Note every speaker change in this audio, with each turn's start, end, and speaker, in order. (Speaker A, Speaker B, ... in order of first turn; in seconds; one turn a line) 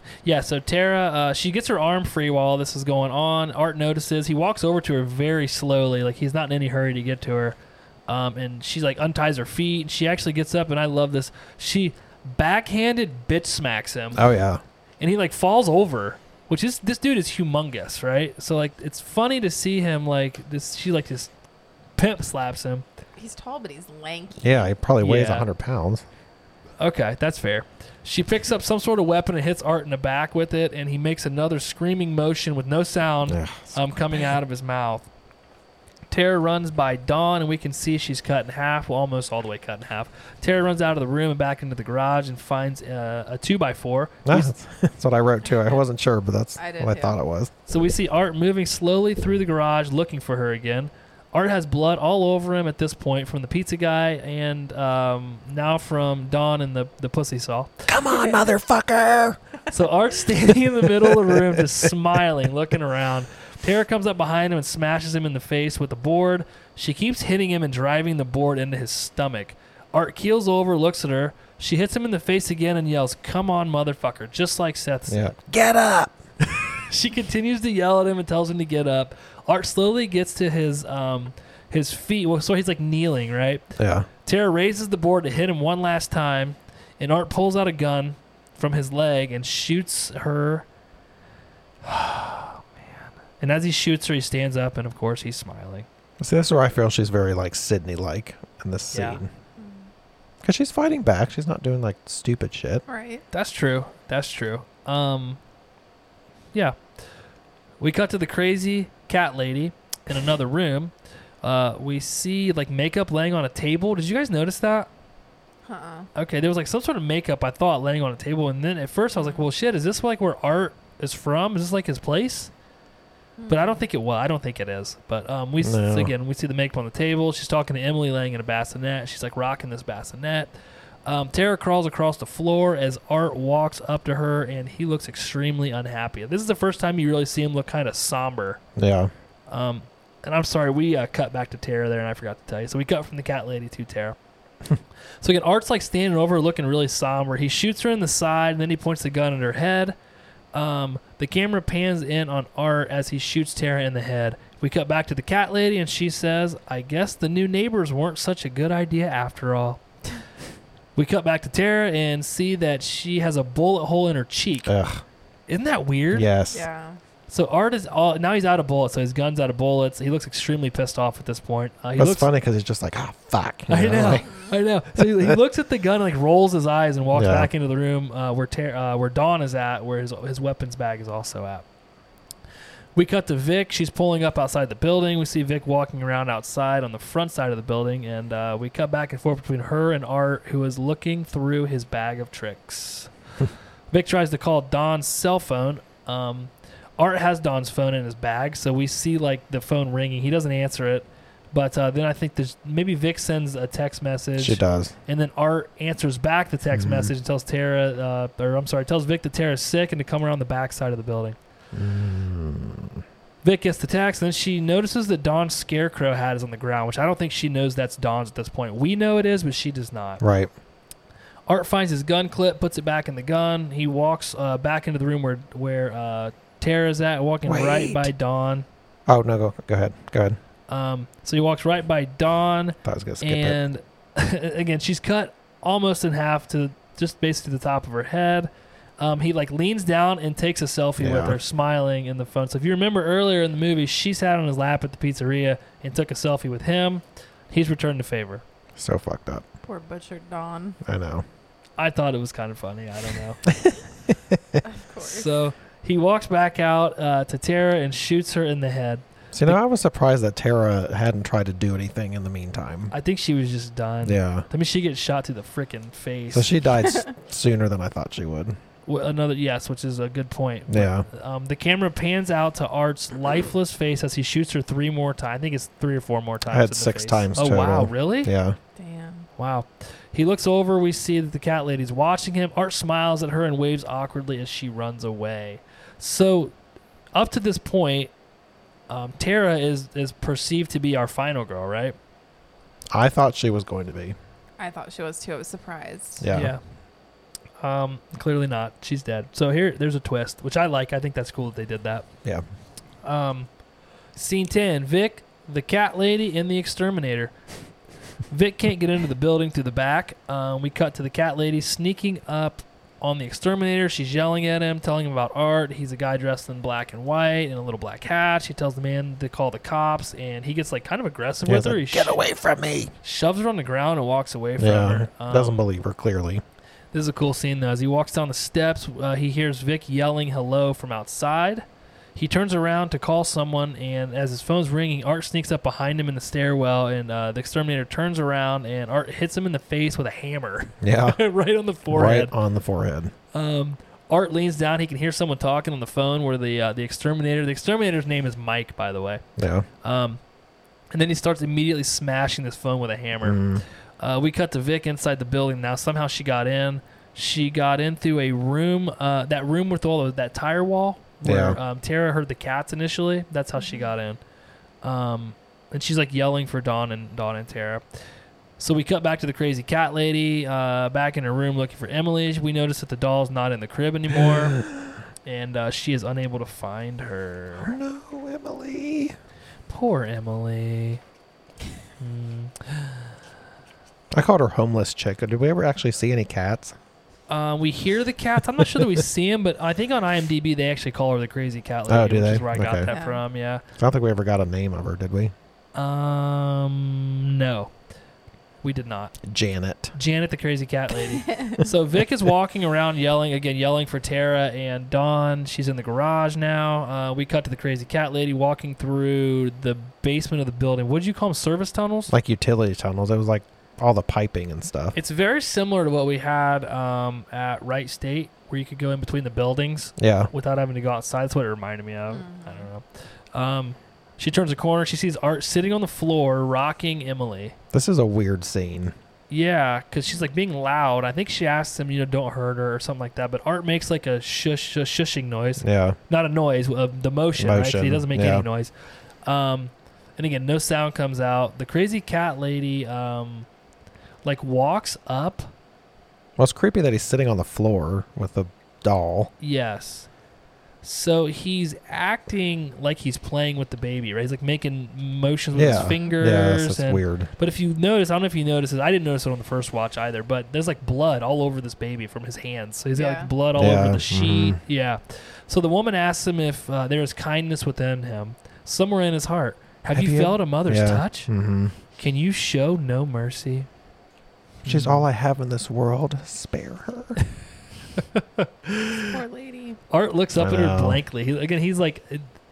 Speaker A: 0.2-14.3
Speaker B: 14.1-14.6
Speaker A: 15.0-21.3
Speaker A: 22.0-22.9
Speaker C: 23.2-24.7
Speaker B: 24.4-26.1
Speaker A: 25.0-25.5
Speaker A: 26.8-35.0
Speaker B: 33.3-33.8
Speaker A: 36.1-44.5
Speaker B: 44.2-47.5
Speaker C: 46.6-47.2
Speaker A: 47.7-57.9
Speaker B: 57.9-59.4
Speaker A: 59.7-75.3
Speaker B: 60.5-61.9
Speaker B: 75.1-76.2
Speaker A: 76.6-83.7
Speaker B: 83.8-84.1
Speaker A: 84.2-90.7
Speaker A: 91.8-92.7
Speaker A: 93.4-95.9
Speaker B: 96.2-99.3
Speaker A: 98.9-99.2
Speaker C: 99.6-99.9
Speaker B: 100.4-102.8
Speaker C: 102.9-103.2
Speaker A: 103.3-105.4
Speaker A: 107.8-114.9
Speaker C: 115.7-116.1
Speaker A: 116.2-122.5
Speaker C: 119.1-119.5
Speaker C: 123.4-123.8
Speaker A: 123.5-130.5
Speaker B: 125.6-126.1
Speaker A: 131.1-138.6
Speaker B: 138.8-139.1
Speaker A: 139.5-144.2
Speaker A: 145.2-150.0
Speaker A: 150.5-159.8
Speaker A: 161.0-164.7
Speaker B: 164.7-165.0
Speaker A: 165.5-166.3
Speaker B: 166.1-166.7
Speaker C: 166.5-167.0
Speaker A: 167.3-172.3
Speaker B: 172.0-174.3
Speaker A: 173.7-181.7
Speaker C: 174.1-174.5
Speaker B: 175.0-175.4
Speaker B: 177.1-177.5
Speaker A: 182.9-193.1
Speaker A: 193.9-211.4
Speaker B: 204.4-204.9
Speaker B: 206.7-207.1
Speaker B: 211.7-213.0
Speaker A: 213.4-220.2
Speaker B: 220.2-220.5
Speaker A: 221.5-228.7
Speaker B: 227.4-228.1
Speaker B: 229.1-230.4
Speaker A: 230.7-248.4
Speaker B: 232.8-233.6
Speaker B: 241.0-241.4
Speaker B: 248.8-249.4
Speaker C: 249.7-250.8
Speaker B: 250.8-251.2
Speaker A: 251.8-253.4
Speaker B: 253.5-254.6
Speaker C: 254.6-255.3
Speaker A: 255.0-259.6
Speaker B: 259.3-262.9
Speaker A: 262.9-266.5
Speaker B: 264.0-264.5
Speaker B: 266.3-268.6
Speaker A: 268.9-278.3
Speaker B: 270.7-271.1
Speaker B: 276.5-278.6
Speaker C: 278.8-279.3
Speaker A: 279.4-286.5
Speaker A: 287.1-288.1
Speaker A: 288.9-292.0
Speaker B: 292.9-294.2
Speaker C: 294.6-296.2
Speaker B: 296.2-296.5
Speaker A: 296.3-296.6
Speaker A: 297.6-302.1
Speaker A: 303.0-303.5
Speaker A: 304.1-307.4
Speaker A: 308.3-322.2
Speaker B: 321.4-322.9
Speaker A: 323.0-325.6
Speaker B: 324.6-326.4
Speaker A: 326.9-342.3
Speaker B: 340.8-341.2
Speaker B: 341.9-343.1
Speaker A: 343.3-349.2
Speaker B: 349.4-349.7
Speaker A: 349.8-350.2
Speaker A: 350.9-353.4
Speaker B: 353.2-353.6
Speaker A: 354.0-364.2
Speaker B: 361.2-361.6
Speaker C: 363.6-363.9
Speaker A: 364.8-367.8
Speaker A: 368.6-374.6
Speaker B: 374.2-374.9
Speaker A: 375.2-377.7
Speaker B: 377.6-379.1
Speaker A: 379.7-381.0
Speaker A: 382.0-383.1
Speaker B: 384.1-386.8
Speaker A: 387.3-393.6
Speaker B: 388.6-389.0
Speaker B: 391.9-392.9
Speaker C: 392.9-393.2
Speaker B: 393.8-395.3
Speaker A: 395.8-397.7
Speaker A: 398.6-399.2
Speaker B: 399.2-399.9
Speaker A: 399.9-412.1
Speaker C: 401.2-401.6
Speaker B: 412.1-415.0
Speaker A: 414.9-427.6
Speaker B: 420.0-420.3
Speaker C: 422.1-422.7
Speaker B: 427.7-428.9
Speaker A: 429.3-438.7
Speaker B: 435.6-436.0
Speaker B: 437.4-438.5
Speaker A: 439.2-443.5
Speaker A: 444.2-445.5
Speaker B: 446.4-449.3
Speaker A: 449.4-450.1
Speaker A: 450.8-471.3
Speaker B: 455.5-457.3
Speaker C: 462.9-463.3
Speaker B: 463.6-464.6
Speaker B: 469.9-471.8
Speaker A: 472.0-473.7
Speaker A: 474.6-475.1
Speaker B: 474.7-477.2
Speaker A: 478.0-479.2
Speaker C: 479.1-479.8
Speaker A: 479.9-482.3
Speaker B: 480.4-481.0